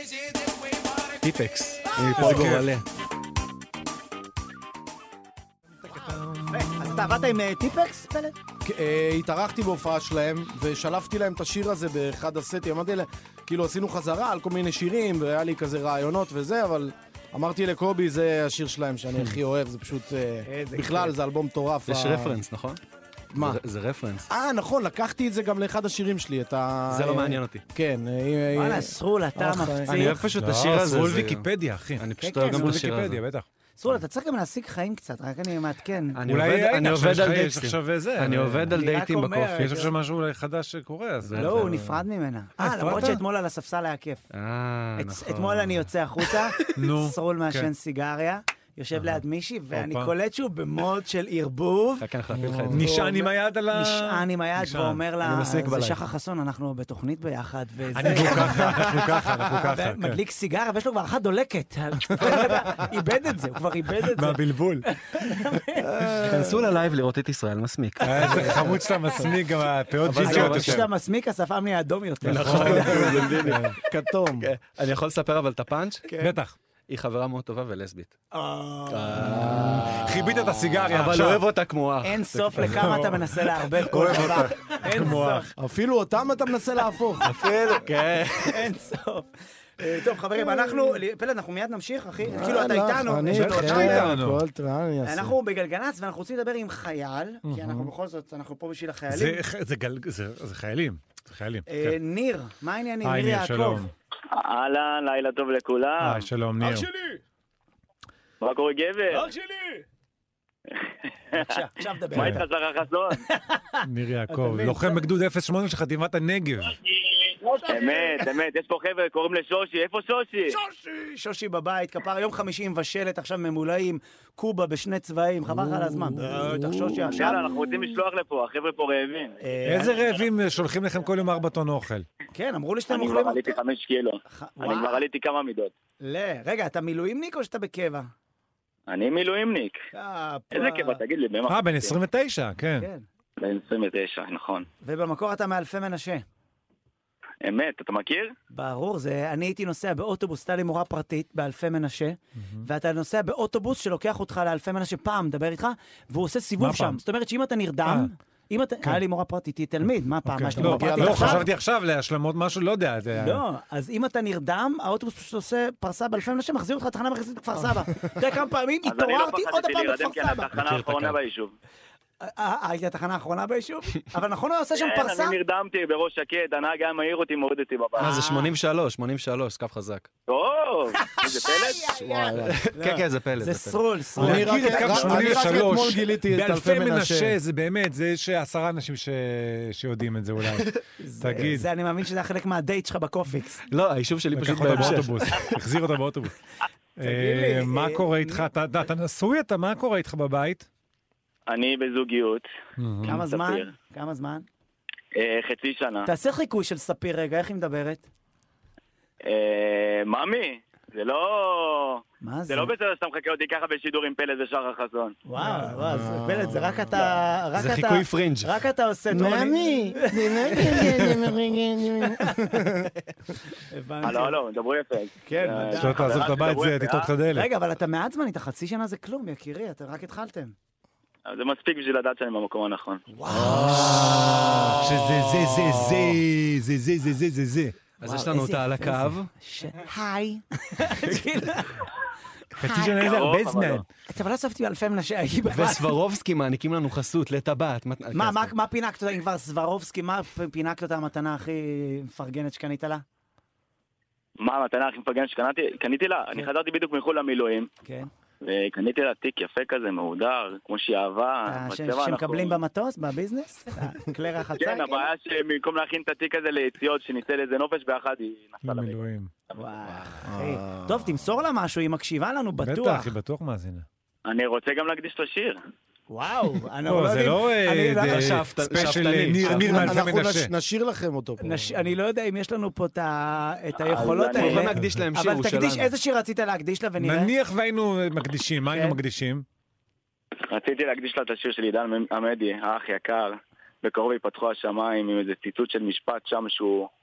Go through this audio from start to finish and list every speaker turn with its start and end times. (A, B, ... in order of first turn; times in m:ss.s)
0:01.2-0:02.8 A
0:01.9-0:02.5 B
0:02.2-0:02.7 C
0:05.8-0:08.4 B
0:06.1-0:06.6 C
0:08.6-0:22.4 D
0:20.4-0:21.2 B
0:21.9-0:22.8 A
0:23.3-0:23.6 D
0:23.4-0:24.3 A
0:24.3-0:30.1 D
0:26.9-0:27.6 A
0:28.5-0:30.2 B
0:29.9-0:33.2 A
0:30.3-0:33.5 C
0:32.2-0:32.8 B
0:33.8-0:36.2 B
0:36.2-0:39.7 A
0:36.3-0:38.8 C
0:38.7-0:39.9 B
0:39.6-0:41.9 C
0:41.2-0:41.8 A
0:41.4-0:44.2 B
0:42.6-0:43.2 C
0:44.3-0:46.3 A
0:45.0-0:52.0 B
0:46.8-0:47.7 C
0:49.7-0:50.1 C
0:52.0-0:52.9 A
0:52.4-0:55.0 C
0:52.7-1:05.9 B
0:55.2-0:56.0 A
0:58.0-1:00.2 C
1:02.3-1:02.5 D
1:04.2-1:04.9 C
1:05.9-1:06.6 D
1:06.1-1:08.8 A
1:08.0-1:10.9 C
1:08.2-1:08.5 B
1:10.0-1:10.9 A
1:10.2-1:13.4 B
1:12.2-1:13.8 A
1:12.2-1:13.8 C
1:13.8-1:14.5 D
1:14.4-1:16.0 A
1:16.1-1:16.3 B
1:16.2-1:16.6 C
1:16.9-1:18.2 A
1:18.3-1:19.9 B
1:18.9-1:23.1 A
1:19.2-1:19.9 D
1:20.0-1:21.5 C
1:22.0-1:25.5 B
1:22.6-1:25.5 C
1:25.6-1:27.3 D
1:27.2-1:28.6 A
1:28.4-1:29.3 B
1:29.8-1:34.1 B
1:32.2-1:35.3 D
1:33.3-1:34.4 C
1:35.0-1:39.4 B
1:37.4-1:37.9 C
1:39.1-1:42.0 C
1:41.7-1:43.8 B
1:43.0-1:43.9 C
1:44.3-1:46.3 E
1:46.0-1:46.9 C
1:46.6-1:47.2 B
1:48.4-1:49.2 E
1:49.1-1:49.8 B
1:51.3-1:52.4 B
1:52.1-1:53.2 E
1:52.2-1:52.4 C
1:53.2-1:55.0 B
1:53.8-1:56.8 C
1:56.7-2:00.6 E
1:57.5-1:58.3 B
2:00.5-2:07.4 B
2:05.5-2:07.3 D
2:07.1-2:09.4 E
2:09.4-2:10.2 B
2:09.7-2:12.1 C
2:12.3-2:13.6 B
2:12.9-2:15.7 E
2:14.3-2:15.0 B
2:16.0-2:18.1 B
2:18.9-2:19.8 E
2:19.9-2:21.0 B
2:20.5-2:22.0 E
2:21.5-2:22.9 C
2:22.8-2:23.0 B
2:23.4-2:24.7 E
2:24.8-2:26.2 B
2:27.4-2:28.3 E
2:28.5-2:41.5 B
2:32.4-2:32.7 C
2:36.6-2:37.0 C
2:40.3-2:43.4 C
2:40.6-2:41.5 D
2:43.2-2:50.5 B
2:48.8-2:51.5 E
2:50.5-2:51.2 A
2:52.2-2:55.4 B
2:54.8-2:58.2 E
2:58.0-2:58.5 B
2:58.0-3:00.1 A
3:00.3-3:02.0 E
3:01.0-3:06.0 B
3:02.1-3:02.5 D
3:02.4-3:04.3 A
3:04.2-3:07.4 D
3:04.2-3:11.7 C
3:11.0-3:13.6 B
3:13.7-3:15.6 A
3:14.3-3:16.3 C
3:17.0-3:20.7 C
3:17.0-3:18.5 B
3:21.5-3:22.5 E
3:22.8-3:23.2 C
3:23.0-3:24.5 B
3:23.0-3:23.7 E
3:25.2-3:26.1 E
3:26.0-3:28.1 B
3:29.2-3:35.2 E
3:32.2-3:32.7 B
3:35.3-3:41.1 B
3:35.7-3:37.0 D
3:37.6-3:38.5 A
3:39.1-3:42.9 D
3:42.0-3:42.6 B
3:43.6-3:44.4 B
3:44.0-3:47.1 E
3:45.2-3:46.4 B
3:45.8-3:47.5 C
3:47.3-3:50.6 B
3:51.3-3:53.0 E
3:53.1-3:54.2 B
3:53.3-3:54.5 A
3:53.4-3:54.1 D
3:53.5-3:57.8 C
3:58.0-3:59.3 A
3:58.0-4:01.9 B
4:02.6-4:03.8 C
4:02.6-4:03.0 B
4:03.0-4:03.8 E
4:04.1-4:06.0 B
4:05.5-4:08.5 A
4:08.1-4:13.0 B
4:14.4-4:17.7 E
4:17.8-4:18.1 B
4:18.4-4:22.6 E
4:21.5-4:25.1 B
4:24.6-4:29.0 E
4:28.6-4:29.3 C
4:29.6-4:33.1 B
4:30.2-4:31.2 D
4:32.6-4:33.9 C
4:34.2-4:35.6 E
4:36.1-4:40.0 B
4:36.8-4:40.5 C
4:38.0-4:40.0 A
4:39.6-4:41.5 D
4:41.4-4:47.3 B
4:43.9-4:44.6 E
4:44.3-4:45.9 A
4:47.0-4:49.4 C
4:48.7-4:49.0 B
4:50.5-4:56.9 E